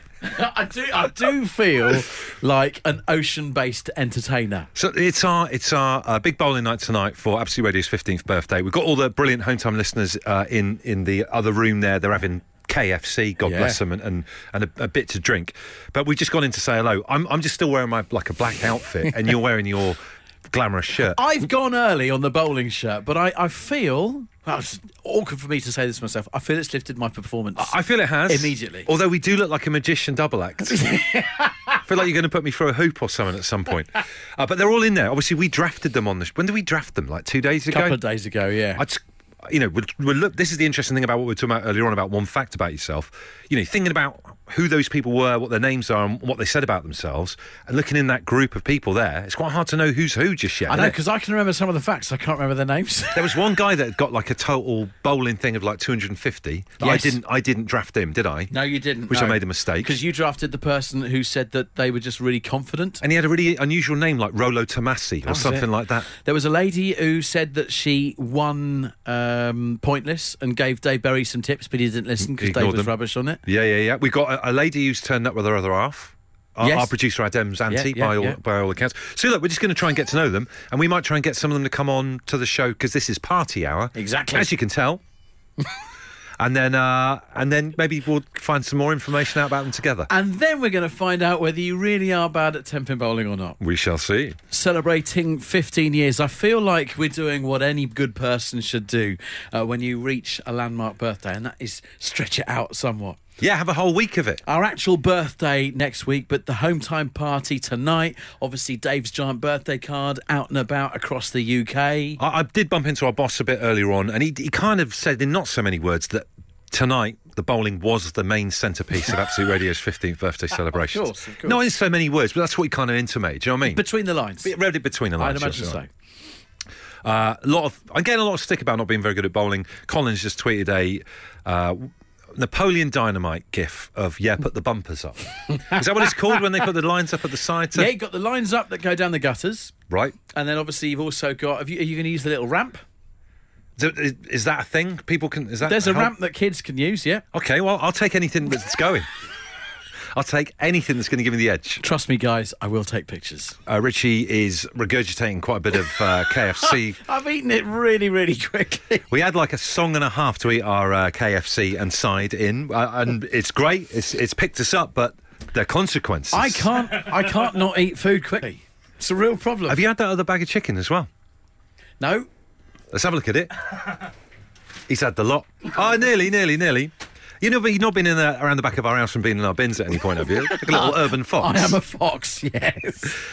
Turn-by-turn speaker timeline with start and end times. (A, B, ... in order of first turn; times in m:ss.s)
0:00.2-0:04.7 A
0:04.7-0:21.2 B
0:13.4-0:13.8 A
0:21.1-0:27.8 A
0:27.6-0:30.9 B
0:28.3-0:28.9 A
0:30.7-0:31.8 A
0:31.8-0:38.0 B
0:37.7-0:38.8 A
0:38.8-0:50.9 B
0:50.7-0:53.4 A
0:53.1-0:58.5 B
0:56.8-0:57.2 A
0:58.5-1:03.0 A
0:59.1-0:59.9 B
1:03.0-1:06.1 B
1:05.2-1:13.4 A
1:12.2-1:12.9 B
1:13.4-1:25.0 B
1:16.6-1:16.9 A
1:17.7-1:18.4 A
1:23.9-1:24.5 A
1:26.4-1:30.1 B
1:30.1-1:33.6 A
1:33.6-1:34.4 B
1:34.5-1:43.2 A
1:43.4-1:44.4 B
1:44.4-1:52.2 A
1:52.2-2:03.8 B
2:00.7-2:01.6 A
2:03.7-2:04.5 A
2:04.4-2:05.8 B
2:05.2-2:05.9 A
2:07.0-2:17.9 B
2:17.7-2:19.7 A
2:19.9-2:20.2 B
2:20.3-2:22.8 A
2:23.8-2:26.1 B
2:25.6-2:27.2 A
2:27.3-2:29.1 B
2:30.1-2:31.8 B
2:31.8-2:33.6 A
2:33.6-2:37.0 B
2:36.6-2:39.0 A
2:39.1-2:46.7 B
2:46.3-2:49.8 A
2:49.7-2:51.1 B
2:52.0-2:52.3 A
2:52.9-2:53.5 B
2:54.9-3:01.8 B
3:00.3-3:03.2 A